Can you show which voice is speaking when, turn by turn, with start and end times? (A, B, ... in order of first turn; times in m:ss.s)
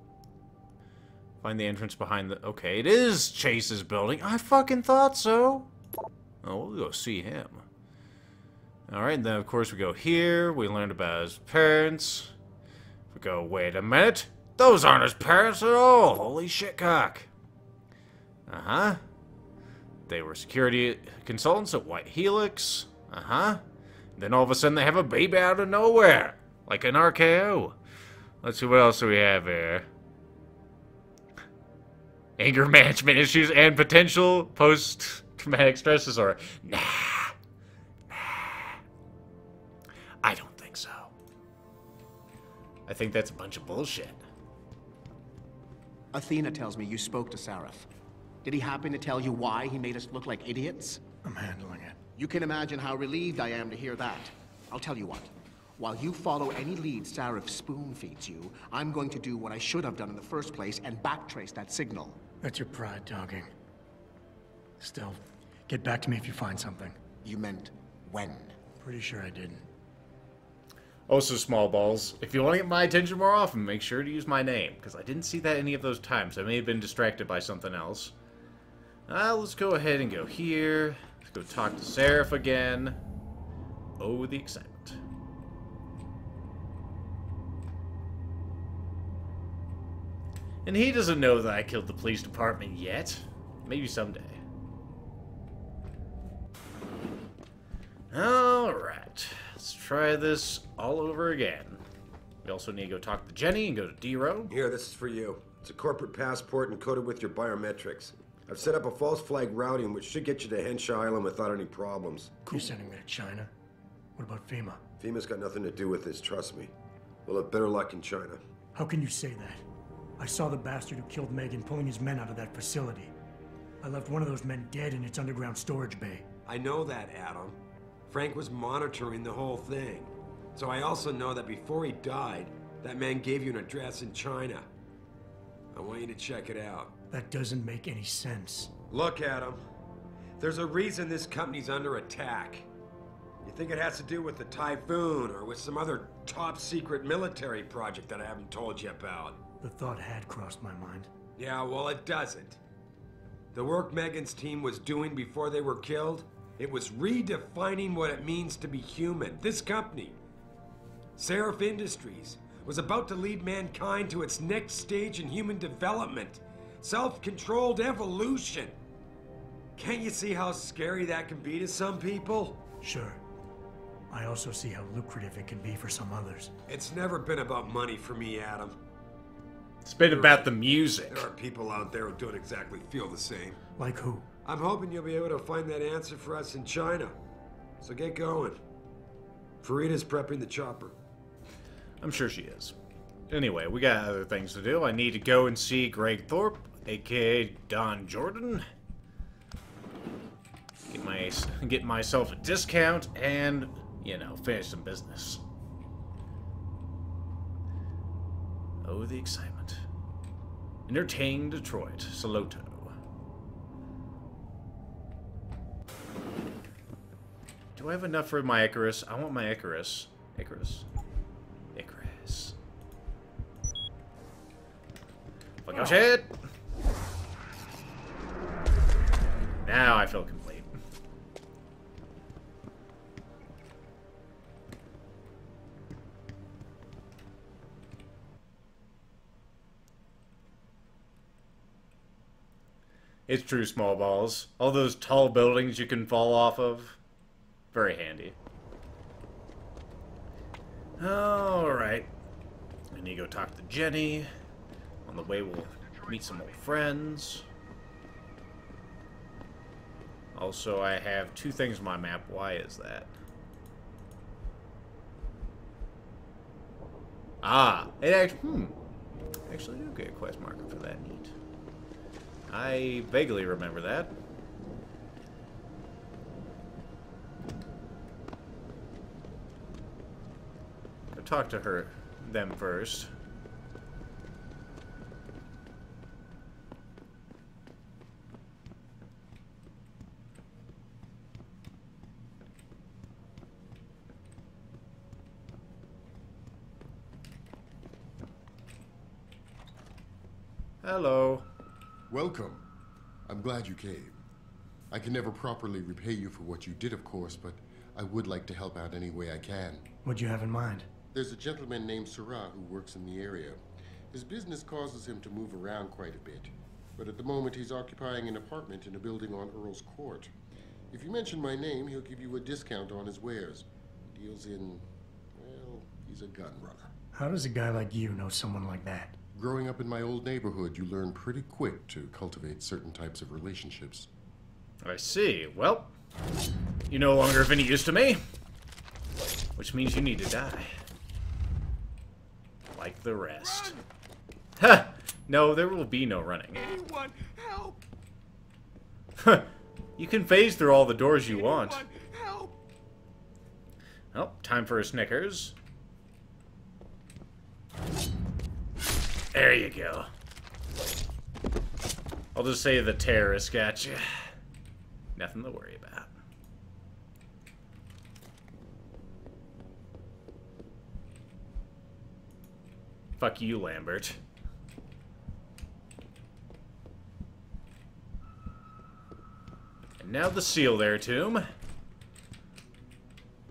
0:01.4-0:05.7 A
0:06.4-0:07.6 A
0:08.9-0:12.3 A
0:13.1-0:17.3 A
0:18.5-0:19.0 A
0:20.1-0:23.6 A
0:24.2-0:27.8 A
0:28.4-0:29.9 A
0:32.4-0:37.3 A
0:38.1-0:38.8 A
0:40.2-0:41.1 A
0:42.9-0:44.2 A
0:46.1-0:47.9 B
0:48.4-0:51.0 B
0:51.2-0:52.0 C
0:52.2-1:02.2 B
1:02.4-1:03.5 C
1:04.8-1:07.0 C
1:07.2-1:08.6 B
1:08.8-1:09.7 C
1:11.1-1:18.1 A
1:19.1-1:23.0 A
1:24.0-1:25.0 A
1:30.6-1:34.4 A
1:38.1-1:41.8 A
1:42.4-1:44.5 A
1:44.5-1:52.4 D
1:52.4-1:53.5 C
1:54.2-1:54.8 C
1:55.0-1:56.7 D
1:57.2-1:58.4 D
1:58.7-1:59.6 C
2:00.2-2:03.1 C
2:03.8-2:06.2 C
2:06.4-2:07.6 D
2:08.1-2:14.7 D
2:15.7-2:16.9 D
2:17.1-2:18.7 C
2:18.9-2:19.6 D
2:20.4-2:22.7 D
2:23.4-2:29.4 D
2:29.6-2:31.1 C
2:31.4-2:32.6 D
2:33.5-2:40.2 D
2:41.2-2:48.8 D
2:49.8-2:52.6 D
2:52.8-2:53.2 C
2:54.1-2:56.5 C
2:56.7-2:58.8 D
2:59.8-3:01.3 A
3:00.0-3:00.5 D
3:01.1-3:03.6 D
3:03.8-3:04.3 C
3:04.4-3:07.2 D
3:07.8-3:08.6 D
3:09.6-3:11.0 D
3:12.0-3:12.7 A
3:13.3-3:18.6 A
3:20.9-3:25.4 A
3:28.8-3:29.8 A
3:30.9-3:32.9 A
3:37.7-3:40.8 A
3:41.7-3:42.5 A
3:45.6-3:46.3 A
3:49.6-3:50.7 A
4:03.3-4:07.0 A
4:07.7-4:08.4 A
4:11.0-4:12.1 A
4:12.9-4:14.3 A
4:15.0-4:17.4 A
4:15.2-4:16.8 E
4:20.3-4:23.1 A
4:27.4-4:28.7 A
4:29.5-4:31.3 A
4:32.5-4:34.1 A
4:41.2-4:43.1 A
5:00.8-5:01.4 A
5:02.1-5:02.6 F
5:03.3-5:04.2 F
5:04.9-5:09.9 F
5:10.0-5:10.9 C
5:11.1-5:13.6 F
5:14.1-5:20.3 F
5:20.9-5:26.9 F
5:27.1-5:29.2 C
5:29.3-5:34.1 F
5:34.8-5:35.9 A
5:36.9-5:38.2 A
5:39.6-5:40.7 A
5:42.7-5:43.8 A
5:43.4-5:43.8 E
5:44.6-5:46.6 A
5:46.5-5:47.8 E
5:49.2-5:51.8 A
5:51.2-5:52.6 E
5:54.1-5:55.5 A
5:59.3-6:00.1 A
6:02.3-6:04.3 A
6:05.2-6:06.1 A
6:13.2-6:14.2 A
6:20.0-6:21.4 A